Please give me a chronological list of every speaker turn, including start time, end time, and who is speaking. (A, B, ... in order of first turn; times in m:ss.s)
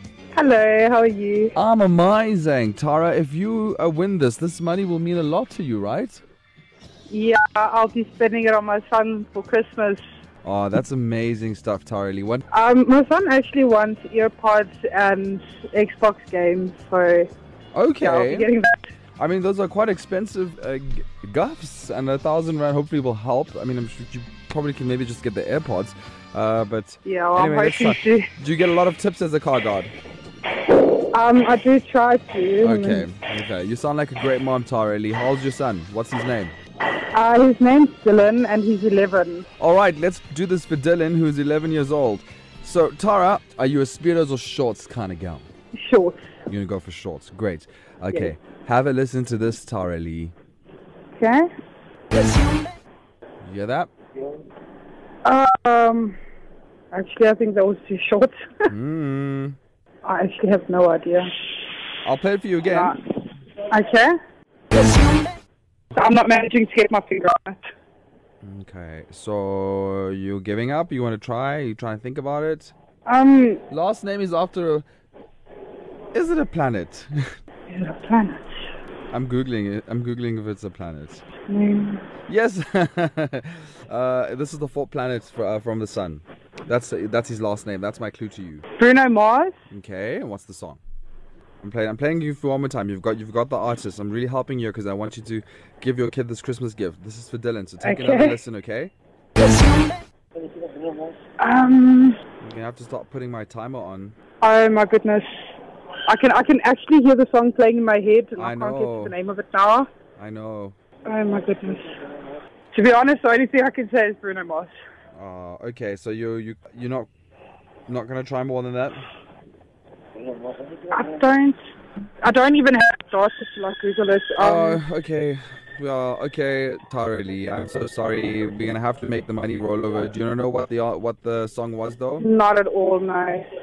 0:00.3-0:01.5 A
0:01.6-0:06.2 B
0:07.1-0:10.0 A
0:10.4-0:12.4 B
0:12.5-0:17.3 A
0:17.7-0:18.5 B
0:18.0-0:18.9 A
0:19.2-0:29.9 B
0:27.0-0:28.3 A
0:31.1-0:33.0 A
0:32.6-0:36.5 B
0:37.1-0:39.4 A
0:39.6-0:45.5 B
0:45.7-0:46.3 A
0:46.5-0:50.3 B
0:51.2-0:51.4 A
0:53.4-0:53.9 B
0:55.2-0:56.2 A
0:56.9-0:58.7 A
0:58.7-0:59.6 B
1:00.0-1:01.3 A
1:02.0-1:02.9 B
1:02.7-1:03.0 A
1:03.7-1:04.1 A
1:05.9-1:07.7 A
1:08.4-1:12.7 B
1:13.0-1:13.6 A
1:13.7-1:14.8 B
1:16.1-1:17.2 B
1:17.7-1:18.7 A
1:19.1-1:21.2 B
1:21.5-1:22.0 A
1:22.3-1:28.6 B
1:28.8-1:29.5 A
1:29.7-1:30.8 B
1:31.6-1:38.9 B
1:37.8-1:38.4 A
1:41.4-1:42.2 A
1:42.4-1:44.2 B
1:44.4-1:45.3 A
1:46.1-1:49.9 A
1:48.4-1:49.1 B
1:50.2-1:50.8 B
1:51.0-1:52.0 A
1:52.7-1:54.7 A
1:55.1-1:57.1 B
1:57.9-1:59.0 B
2:00.9-2:01.6 A
2:02.2-2:04.8 A
2:04.4-2:12.2 B
2:12.2-2:13.5 A